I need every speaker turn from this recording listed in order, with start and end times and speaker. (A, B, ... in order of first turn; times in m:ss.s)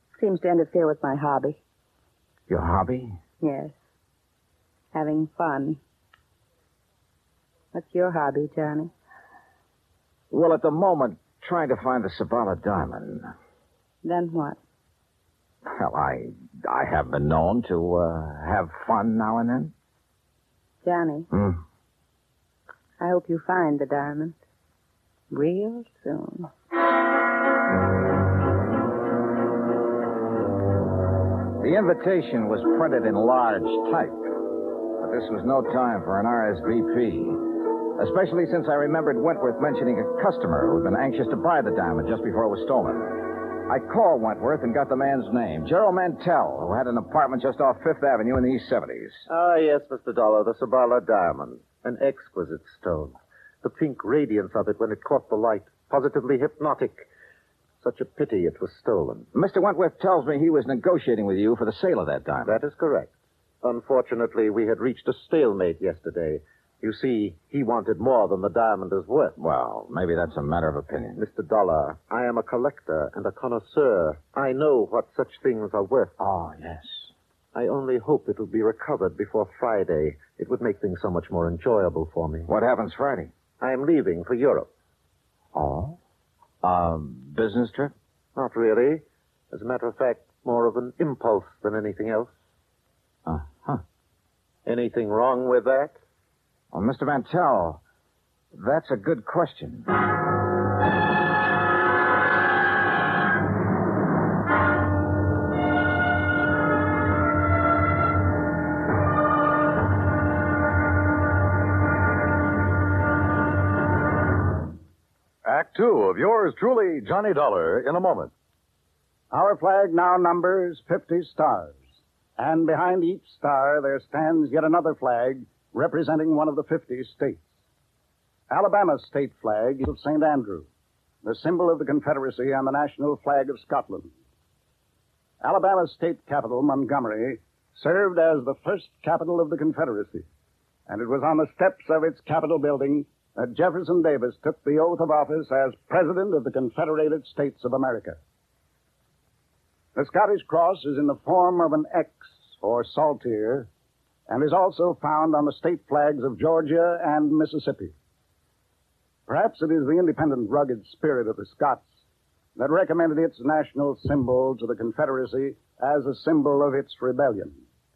0:00.2-0:01.6 A
0:02.5-0:03.2 B
0:03.4-0:03.7 A
0:04.9-0:05.8 A
0:07.7-0:08.9 A
0:10.3-0:13.3 B
0:14.0-0:14.6 A
0:15.8-0:19.7 B
0:20.8-0:21.3 A
0:21.3-0:21.6 B
0:23.0-0:24.4 A
0:25.3-0:26.5 A
0:31.6-0:34.2 B
0:35.0-0:37.4 B
0:38.0-0:49.2 B
0:49.3-0:57.0 C
0:57.8-0:59.3 C
0:59.3-1:02.6 B
1:02.5-1:03.1 C
1:03.6-1:09.3 C
1:09.4-1:11.2 B
1:11.2-1:16.1 C
1:16.2-1:17.1 B
1:17.6-1:22.5 C
1:22.5-1:23.3 B
1:23.6-1:24.7 C
1:25.6-1:26.0 B
1:26.6-1:27.9 B
1:28.4-1:32.3 C
1:33.3-1:33.8 B
1:34.7-1:36.0 C
1:36.7-1:37.8 B
1:38.5-1:39.9 B
1:55.4-1:58.3 D
1:59.3-2:01.9 E
2:02.4-2:07.5 E
2:08.5-2:10.7 E
2:11.2-2:14.1 E
2:15.4-2:20.2 E
2:20.9-2:28.2 E
2:30.0-2:33.7 E
2:34.3-2:37.9 E
2:39.3-2:42.0 E
2:42.6-2:47.6 E